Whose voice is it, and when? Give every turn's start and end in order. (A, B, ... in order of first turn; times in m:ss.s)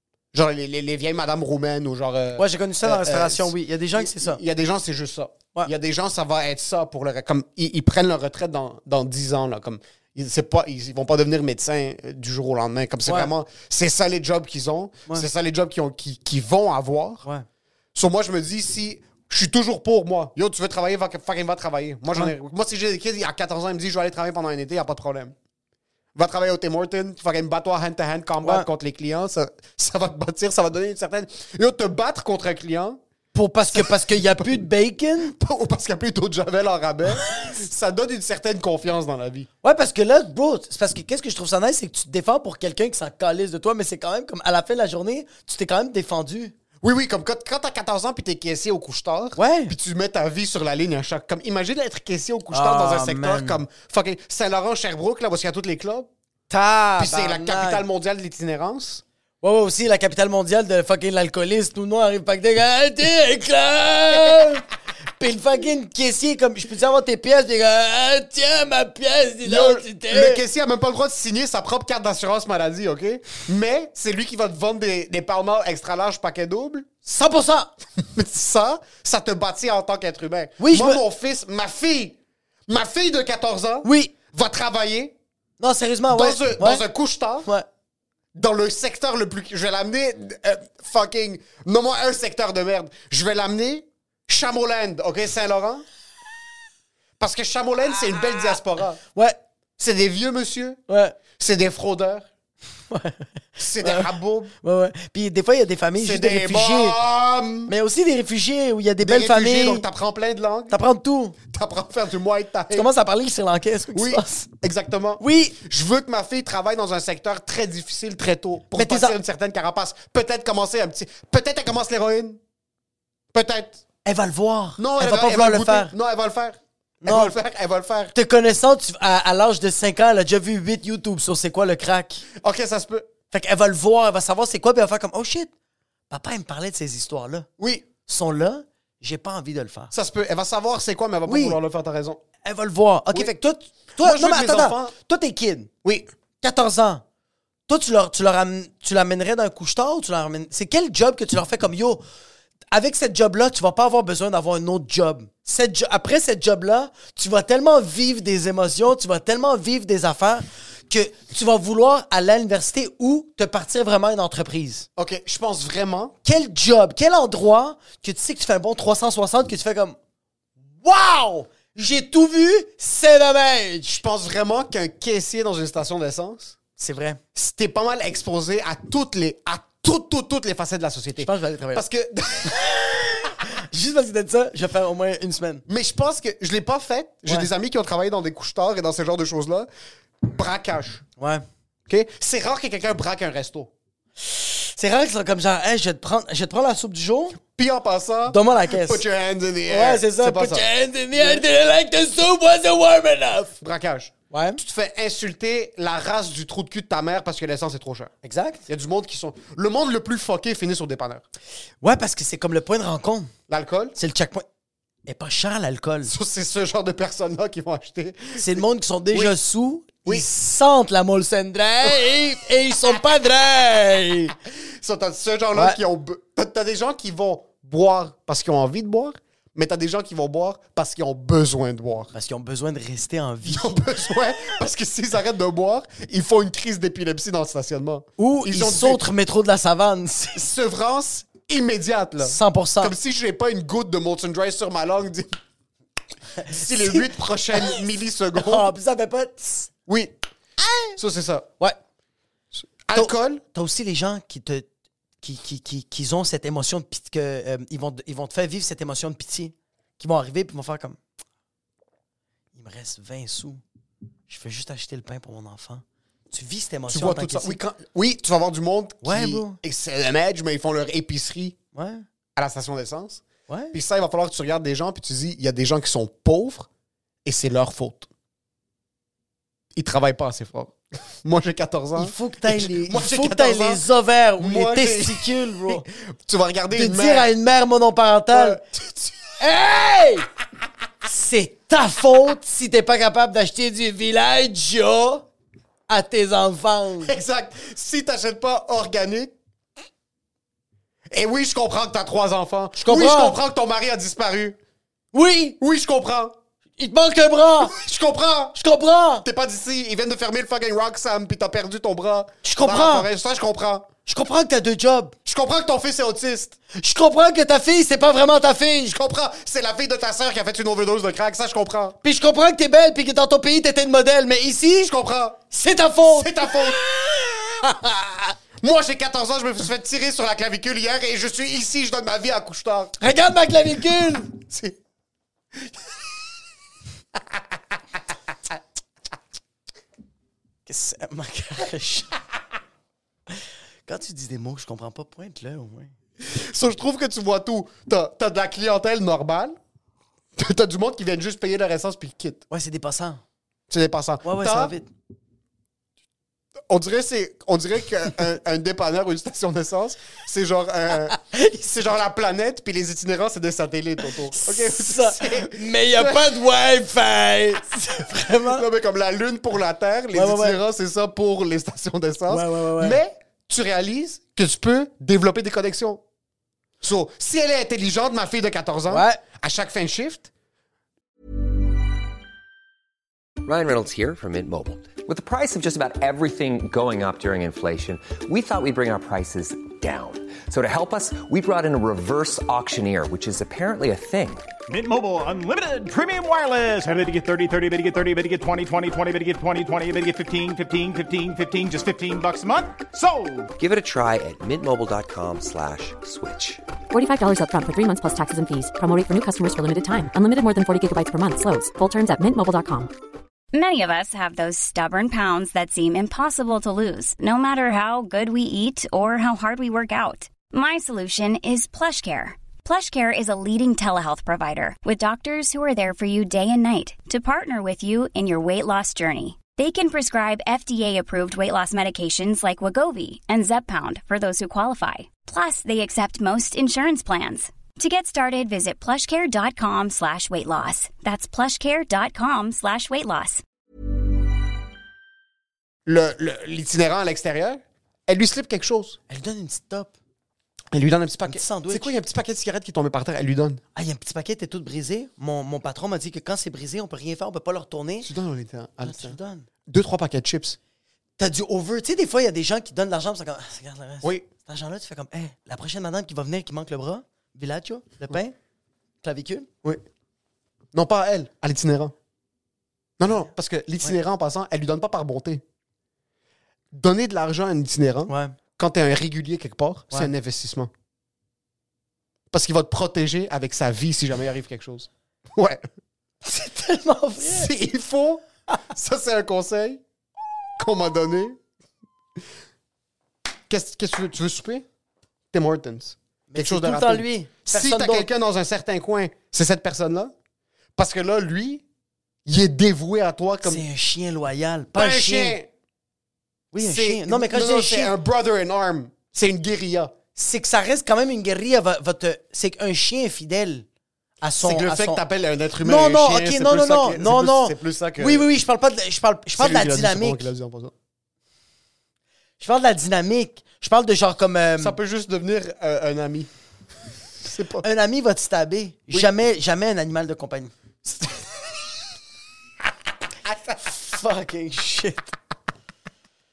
0:00.3-0:17.2 A
0:02.4-0:04.4 B
0:13.0-0:13.3 B
0:17.9-0:25.3 A
0:26.1-0:33.0 A
0:28.4-0:28.7 B
0:33.3-0:35.3 B
0:33.7-0:34.6 A
0:35.2-0:39.5 A
0:39.6-0:46.5 B
0:46.8-0:56.1 A
0:49.4-0:49.7 B
0:52.5-0:53.6 B
0:56.5-0:57.8 B
0:57.0-0:59.0 A
0:59.4-1:04.7 B
1:05.2-1:10.4 B
1:09.4-1:16.9 A
1:17.0-1:17.7 B
1:18.0-1:25.1 A
1:20.6-1:21.0 B
1:23.8-1:24.1 B
1:25.6-1:26.8 B
1:26.1-1:27.5 A
1:28.3-1:35.8 A
1:37.2-1:39.0 A
1:39.8-1:40.8 A
1:40.9-1:41.2 B
1:41.4-1:42.3 A
1:42.9-1:44.1 B
1:43.6-1:44.5 A
1:44.6-1:47.0 B
1:46.0-1:47.7 A
1:47.7-1:49.8 B
1:49.0-1:50.8 A
1:50.7-1:51.4 B
1:51.5-1:52.9 A
1:52.7-1:54.5 B
1:53.9-2:02.4 A
1:55.2-1:55.6 B
1:58.7-1:59.2 B
2:03.3-2:03.8 A
2:04.0-2:05.9 B
2:04.8-2:08.1 A
2:07.0-2:07.4 B
2:08.1-2:12.2 B
2:12.4-2:13.1 A
2:13.3-2:15.5 B
2:16.1-2:17.5 B
2:17.6-2:17.9 A
2:18.0-2:19.9 B
2:19.9-2:22.2 A
2:21.2-2:21.6 B
2:22.4-2:25.7 B
2:24.0-2:24.9 A
2:25.8-2:26.1 A
2:26.4-2:27.0 B
2:27.7-2:32.0 B
2:32.7-2:44.9 B
2:45.0-2:46.1 A
2:46.2-2:50.0 B
2:50.8-2:54.0 B
2:53.9-2:56.6 A
2:56.8-2:57.2 B
2:57.3-3:03.0 A
3:01.2-3:01.8 B
3:02.7-3:05.6 B
3:05.7-3:09.7 A
3:10.2-3:11.0 A
3:11.2-3:11.4 B
3:11.9-3:13.7 A
3:14.2-3:17.4 B
3:17.4-3:21.4 A
3:18.3-3:19.0 B
3:19.7-3:23.6 B
3:23.6-3:28.1 A
3:24.3-3:24.6 B
3:28.2-3:28.6 B
3:28.7-3:31.2 A
3:31.8-3:33.3 B
3:33.5-3:34.0 A
3:34.0-3:34.4 B
3:35.0-3:36.1 B
3:36.0-3:39.4 A
3:38.4-3:44.3 B
3:44.8-3:52.1 A
3:45.5-3:45.8 B
3:52.1-3:53.8 B
3:53.4-3:59.0 A
3:58.2-4:00.4 B
4:00.3-4:05.4 A
4:02.2-4:02.9 B
4:06.4-4:07.8 B
4:06.4-4:08.7 A
4:08.3-4:09.7 B
4:09.9-4:10.1 A
4:11.0-4:11.5 A
4:12.8-4:13.4 A
4:12.9-4:14.7 B
4:15.2-4:21.0 B
4:22.5-4:23.6 B
4:24.3-4:27.6 B
4:26.9-4:31.6 A
4:29.0-4:29.6 B
4:31.7-4:32.0 B
4:32.4-4:36.7 A
4:33.5-4:33.8 B
4:37.2-4:38.1 A
4:39.7-4:43.8 A
4:42.0-4:45.8 B
4:44.4-4:47.3 A
4:46.7-4:48.6 B
4:48.3-4:49.1 A
4:49.4-4:50.3 B
4:51.0-4:55.2 B
4:55.9-4:57.1 B
4:57.0-4:59.3 A
5:01.1-5:04.6 A
5:02.8-5:03.4 B
5:05.1-5:05.6 B
5:05.6-5:06.4 A
5:06.8-5:07.7 B
5:07.6-5:08.6 A
5:08.5-5:09.2 B
5:09.2-5:13.9 A
5:12.4-5:13.1 B
5:14.0-5:15.1 B
5:15.2-5:16.6 A
5:16.7-5:18.9 B
5:18.9-5:22.0 A
5:22.0-5:24.9 B
5:24.8-5:25.4 A
5:25.5-5:27.7 B
5:26.0-5:26.9 A
5:27.6-5:27.9 A
5:28.6-5:33.0 A
5:33.0-5:34.3 B
5:34.3-5:34.8 A
5:40.6-5:42.2 B
5:43.8-5:45.9 B
5:46.2-5:49.6 A
5:50.4-5:52.4 A
5:52.5-5:53.2 B
5:53.7-5:54.8 A
5:54.2-5:54.9 B
5:56.7-6:06.3 A
6:04.3-6:08.6 B
6:08.5-6:16.0 A
6:10.1-6:10.6 B
6:12.3-6:13.0 B
6:16.8-6:20.3 A
6:18.9-6:19.2 B
6:23.4-6:34.5 C
6:34.7-6:43.5 D
6:43.6-6:46.6 C
6:46.9-6:52.9 E
6:53.5-7:23.4 F
7:25.8-7:29.0 A
7:29.1-7:29.9 B
7:30.7-7:33.6 A
7:31.2-7:31.9 B
7:33.7-7:38.1 B
7:38.0-7:40.6 A
7:38.8-7:39.5 B
7:41.2-7:48.3 B
7:44.0-7:44.3 A
7:49.0-7:49.5 B
7:50.7-7:51.9 A
7:53.0-7:55.4 A
7:56.7-8:00.7 A
7:58.1-7:58.4 B
8:02.3-8:05.6 A
8:06.2-8:07.5 B
8:07.2-8:09.8 A
8:10.6-8:11.4 A
8:13.5-8:14.6 A
8:15.3-8:20.1 A
8:16.3-8:18.1 B
8:20.8-8:21.6 A
8:22.2-8:23.6 A
8:23.4-8:25.4 B
8:24.7-8:25.5 A
8:26.5-8:27.9 B
8:26.6-8:29.9 A
8:30.2-8:33.6 B
8:34.2-8:35.0 B
8:34.4-8:38.3 A
8:35.6-8:40.3 B
8:39.4-8:40.7 A
8:42.4-8:44.8 B
8:44.6-8:46.3 A
8:47.2-8:47.6 A
8:47.6-8:50.5 B
8:53.2-8:53.6 A
8:53.6-8:55.1 B